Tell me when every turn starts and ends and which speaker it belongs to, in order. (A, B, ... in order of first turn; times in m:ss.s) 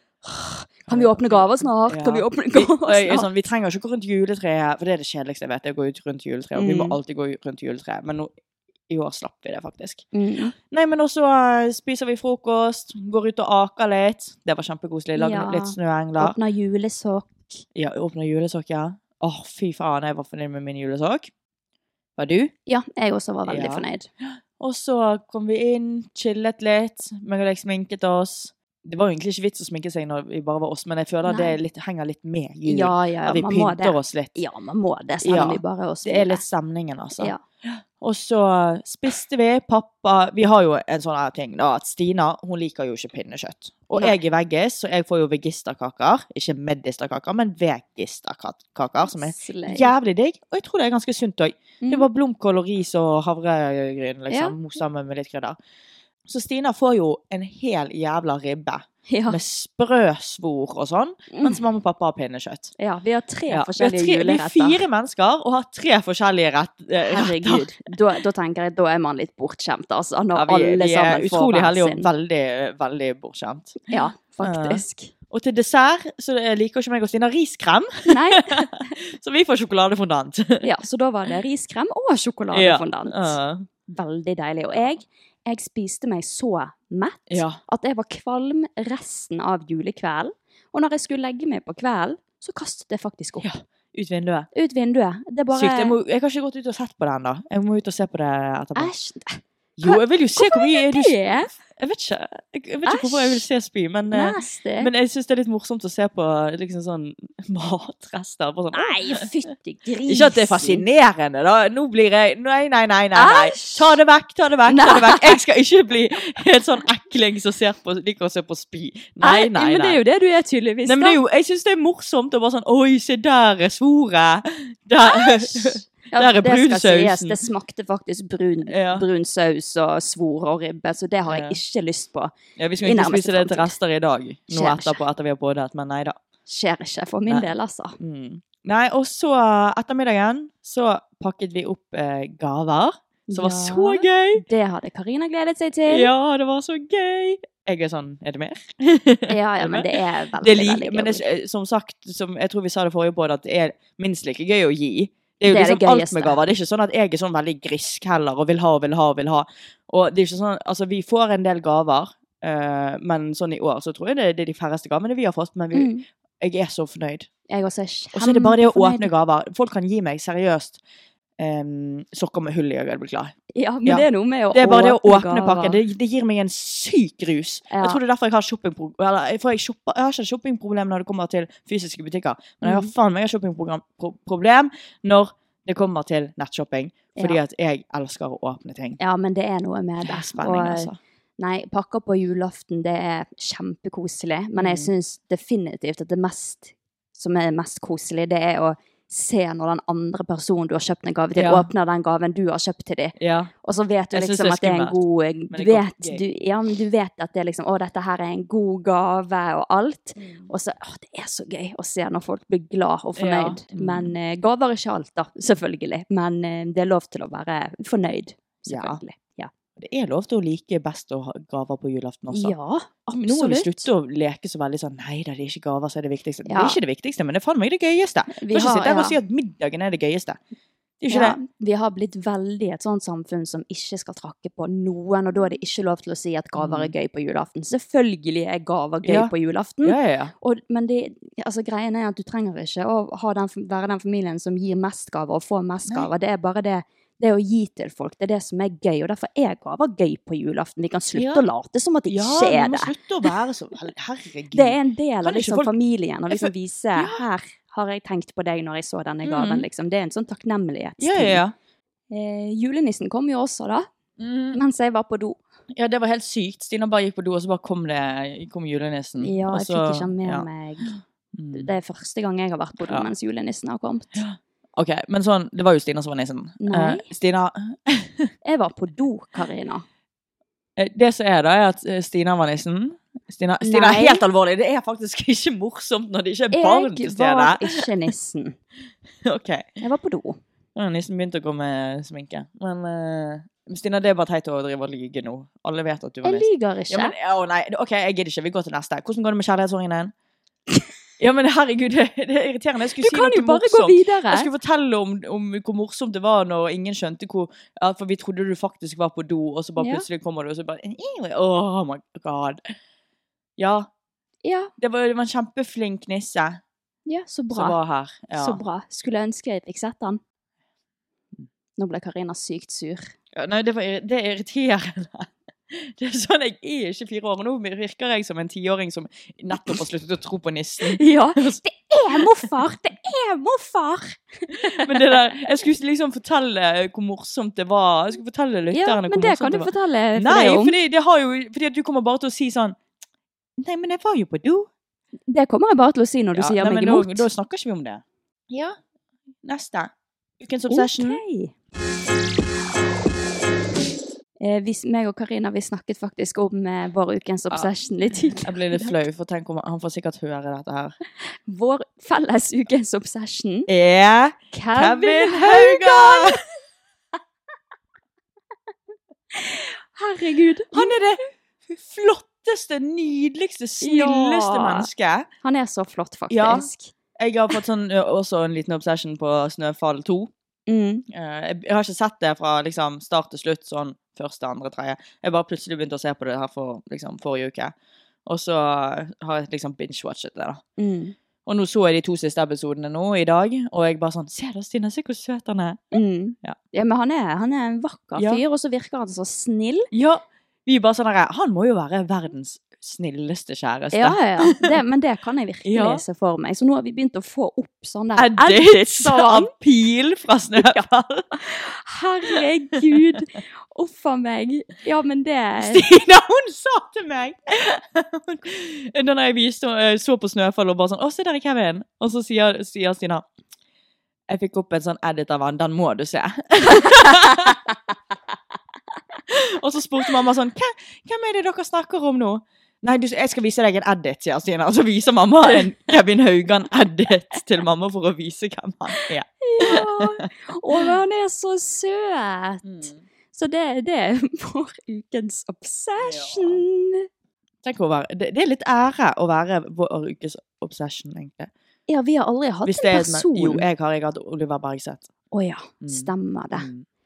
0:00.2-0:03.3 A
0:00.9-0:08.3 B
0:06.6-0:07.0 A
0:08.9-0:10.0 B
0:10.1-0:10.5 A
0:10.7-0:16.4 B
0:15.2-0:17.6 A
0:17.7-0:21.3 B
0:22.2-0:22.5 B
0:22.7-0:24.1 A
0:23.4-0:34.4 B
0:31.3-0:31.6 A
0:32.6-0:36.4 A
0:35.2-0:55.6 B
0:49.0-0:49.9 A
0:51.8-0:52.1 A
0:54.3-0:54.5 A
0:56.3-1:02.7 B
0:59.1-0:59.4 A
1:01.3-1:01.6 A
1:02.8-1:04.8 A
1:03.5-1:07.7 B
1:07.0-1:12.1 A
1:10.3-1:20.7 B
1:13.9-1:15.1 A
1:18.1-1:18.9 A
1:20.6-1:23.4 A
1:22.5-1:23.6 B
1:23.9-1:33.5 A
1:27.3-1:27.6 B
1:33.4-1:34.5 B
1:34.5-1:35.9 A
1:35.5-1:38.9 B
1:38.8-1:41.5 A
1:39.8-1:49.2 B
1:42.8-1:43.4 A
1:44.1-1:44.9 A
1:48.7-1:50.8 A
1:50.0-2:00.0 B
1:53.2-1:53.8 A
1:54.7-1:55.4 A
1:59.2-2:01.2 A
2:00.8-2:07.4 B
2:05.0-2:13.7 A
2:08.7-2:09.0 B
2:11.3-2:11.6 B
2:12.6-2:16.2 B
2:14.5-2:15.0 A
2:16.5-2:17.9 A
2:18.0-2:24.4 B
2:23.3-2:26.1 A
2:25.9-2:29.9 B
2:29.3-2:31.2 A
2:30.4-2:47.3 B
2:35.5-2:36.4 A
2:45.7-2:46.0 A
2:47.5-2:49.1 A
2:48.1-2:50.8 B
2:51.4-2:53.3 B
2:53.5-2:55.8 A
2:53.8-3:09.0 B
2:57.7-2:58.0 A
3:02.6-3:02.9 A
3:09.0-3:39.5 A
3:10.0-3:11.0 B
3:14.6-3:14.9 B
3:21.4-3:21.7 B
3:23.2-3:23.5 B
3:24.1-3:26.2 B
3:30.2-3:30.5 B
3:33.2-3:34.1 B
3:38.7-3:39.0 B
3:39.8-3:42.5 B
3:42.3-3:43.8 A
3:43.2-3:50.4 B
3:46.4-3:46.8 A
3:48.3-3:49.2 A
3:51.0-3:51.4 B
3:51.1-4:12.9 A
3:56.6-3:56.9 B
3:59.0-3:59.3 B
3:59.8-4:00.3 B
4:11.1-4:11.4 B
4:12.1-4:15.7 B
4:14.5-4:21.4 A
4:16.3-4:17.2 B
4:19.2-4:19.6 B
4:21.0-4:21.5 B
4:22.1-4:23.9 A
4:24.2-4:24.6 B
4:24.5-4:25.4 A
4:25.7-4:31.7 B
4:29.2-4:30.9 A
4:31.5-4:34.2 A
4:34.1-4:38.3 B
4:36.6-4:37.1 A
4:38.4-4:39.8 A
4:40.8-4:47.9 B
4:43.6-4:44.2 A
4:46.5-4:48.6 A
4:49.2-4:49.8 B
4:49.8-4:50.4 A
4:50.8-5:00.1 B
4:56.2-4:57.1 A
5:01.2-5:12.6 B
5:03.0-5:04.5 A
5:09.8-5:10.0 A
5:13.6-5:13.9 B
5:14.4-5:14.7 A
5:14.8-5:16.6 B
5:17.1-5:17.8 A
5:17.5-5:18.6 B
5:18.3-5:20.2 A
5:21.8-5:23.1 A
5:23.3-5:32.4 B
5:29.5-5:29.8 A
5:30.8-5:35.1 A
5:34.5-5:42.8 B
5:38.7-5:40.7 A
5:43.6-5:44.7 B
5:45.3-5:47.3 A
5:46.4-5:48.8 B
5:49.4-5:51.2 B
5:50.7-5:51.5 A
5:54.4-5:59.0 A
5:57.5-6:01.0 B
6:01.4-6:03.7 A
6:03.7-6:06.4 B
6:04.5-6:06.4 A
6:09.3-6:10.9 A
6:10.7-6:15.3 B
6:13.8-6:14.9 A
6:15.4-6:16.9 A
6:16.3-6:20.3 B
6:20.7-6:21.0 A
6:21.1-6:27.7 B
6:28.2-6:30.6 B
6:30.8-6:31.1 A
6:31.4-6:36.6 B
6:35.9-6:39.9 A
6:38.2-6:38.4 B
6:39.9-6:44.7 B
6:43.9-6:49.5 A
6:45.6-6:46.0 B
6:48.2-6:51.3 B
6:50.6-6:55.8 A
6:55.6-7:03.2 B
7:04.3-7:07.6 B
7:09.3-7:20.9 B
7:19.0-7:27.1 A
7:22.6-7:23.0 B
7:26.0-7:26.6 B
7:27.6-7:31.5 B
7:31.9-7:33.6 A
7:32.6-7:35.1 B
7:35.3-7:36.7 A
7:35.8-7:36.8 B